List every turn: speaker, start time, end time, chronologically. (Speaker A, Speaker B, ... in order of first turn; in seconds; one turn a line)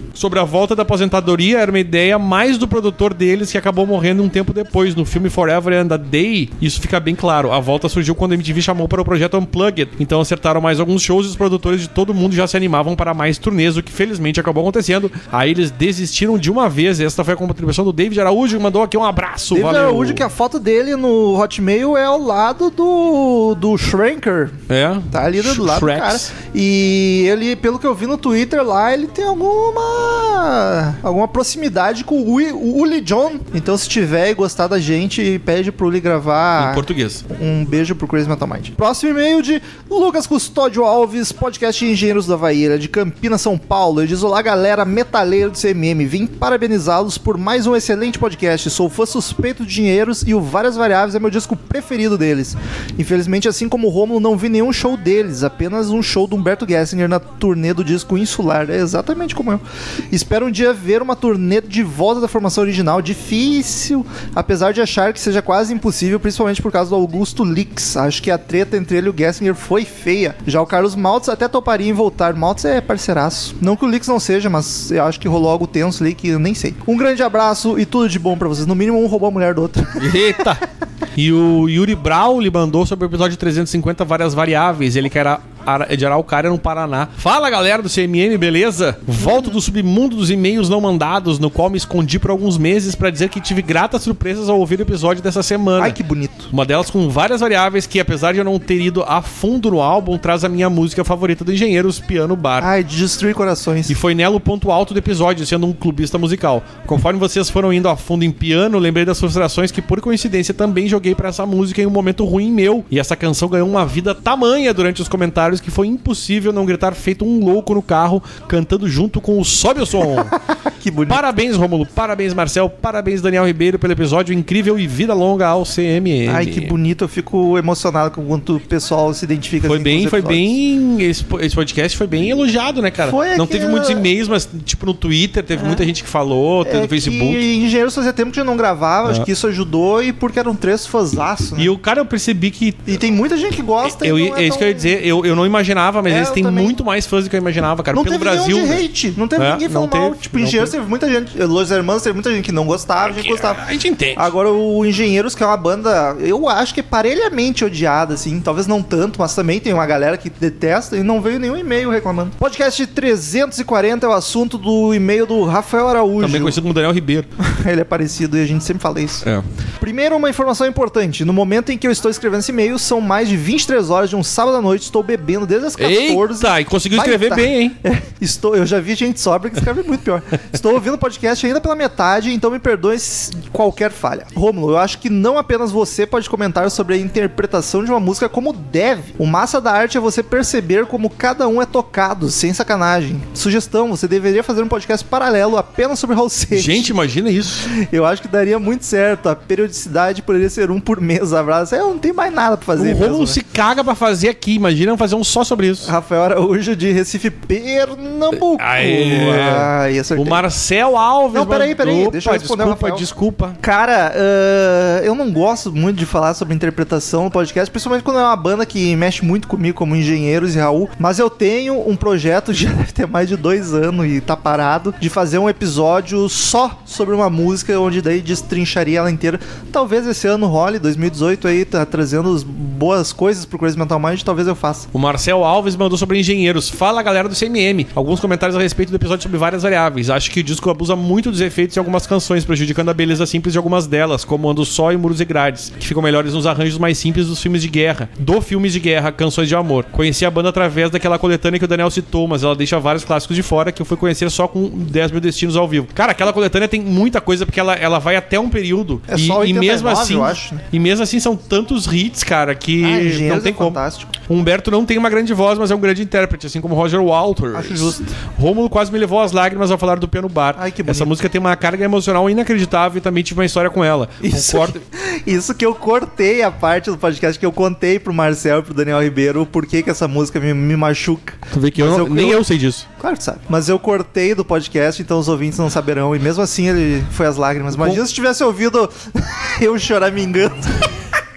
Speaker A: 0.1-20.2
Speaker B: 19.5-24.6
Speaker A: 24.7-26.3
Speaker B: 25.1-80.5
Speaker A: 36.6-37.2
Speaker A: 80.0-80.6
Speaker A: 81.2-96.0
Speaker B: 89.2-89.6
Speaker B: 95.8-96.5
Speaker A: 96.5-102.7
Speaker B: 102.6-104.0
Speaker A: 103.9-120.4
Speaker B: 120.7-121.2
Speaker A: 121.1-126.7
Speaker B: 126.2-130.6
Speaker A: 129.6-137.4
Speaker B: 133.0-134.1
Speaker B: 135.5-135.9
Speaker B: 136.6-141.7
Speaker A: 141.6-142.9
Speaker B: 142.9-145.0
Speaker A: 143.8-148.8
Speaker B: 146.1-146.8
Speaker B: 147.9-153.6
Speaker A: 149.3-150.7
Speaker A: 153.0-154.3
Speaker B: 154.1-166.6
Speaker A: 166.2-167.3
Speaker B: 167.4-169.2
Speaker B: 169.8-196.9
Speaker A: 175.8-177.8
Speaker A: 196.5-197.7
Speaker B: 197.6-203.4
Speaker A: 202.8-205.9
Speaker B: 205.8-210.4
Speaker A: 208.5-213.6
Speaker B: 211.3-213.1
Speaker B: 213.6-234.9
Speaker A: 234.9-274.8
Speaker B: 259.1-260.6
Speaker B: 262.8-264.2
Speaker B: 267.5-268.1
Speaker B: 270.5-271.1
Speaker B: 274.2-282.4
Speaker A: 281.5-282.9
Speaker B: 283.0-290.9
Speaker A: 287.8-288.0